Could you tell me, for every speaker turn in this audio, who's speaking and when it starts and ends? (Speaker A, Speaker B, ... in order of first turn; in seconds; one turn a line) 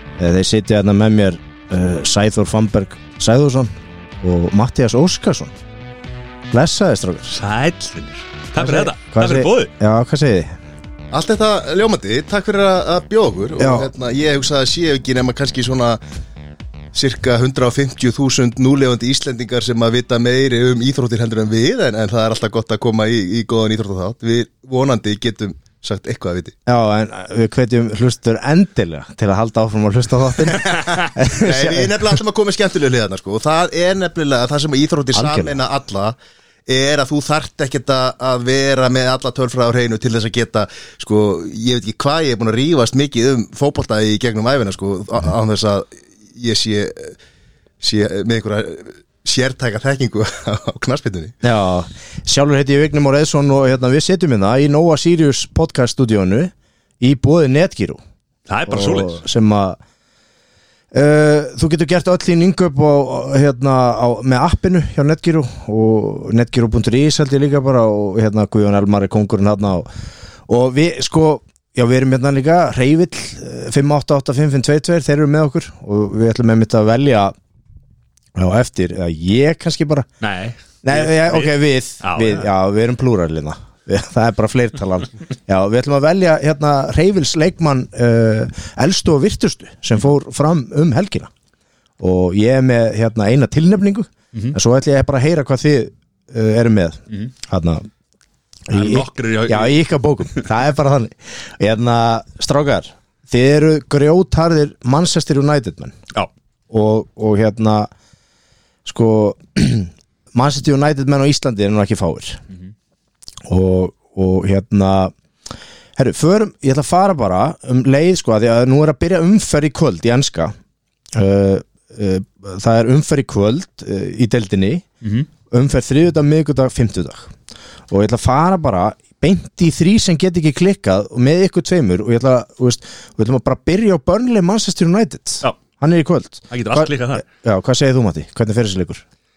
Speaker A: 0.2-5.5
Speaker A: 6.5-7.3
Speaker B: 7.3-9.7
Speaker A: 8.6-10.6
Speaker C: 11.1-16.0
Speaker A: 13.6-13.9
Speaker C: 16.9-26.5
Speaker A: 26.6-32.2
Speaker C: 30.6-36.1
Speaker A: 35.1-35.6
Speaker C: 36.7-47.2
Speaker C: 47.8-51.4
Speaker A: 51.4-58.0
Speaker B: 58.5-59.2
Speaker A: 58.7-59.8
Speaker A: 60.9-69.9
Speaker A: 70.5-77.3
Speaker A: 78.3-80.1
Speaker B: 80.2-82.5
Speaker A: 80.8-91.3
Speaker A: 92.0-97.9
Speaker A: 98.7-106.0
Speaker B: 98.7-99.8
Speaker A: 106.7-107.9
Speaker A: 108.8-112.4
Speaker A: 113.4-115.1
Speaker A: 116.0-120.5
Speaker A: 121.1-124.8
Speaker B: 125.0-125.3
Speaker A: 125.5-127.3
Speaker A: 127.9-139.0
Speaker B: 136.5-137.2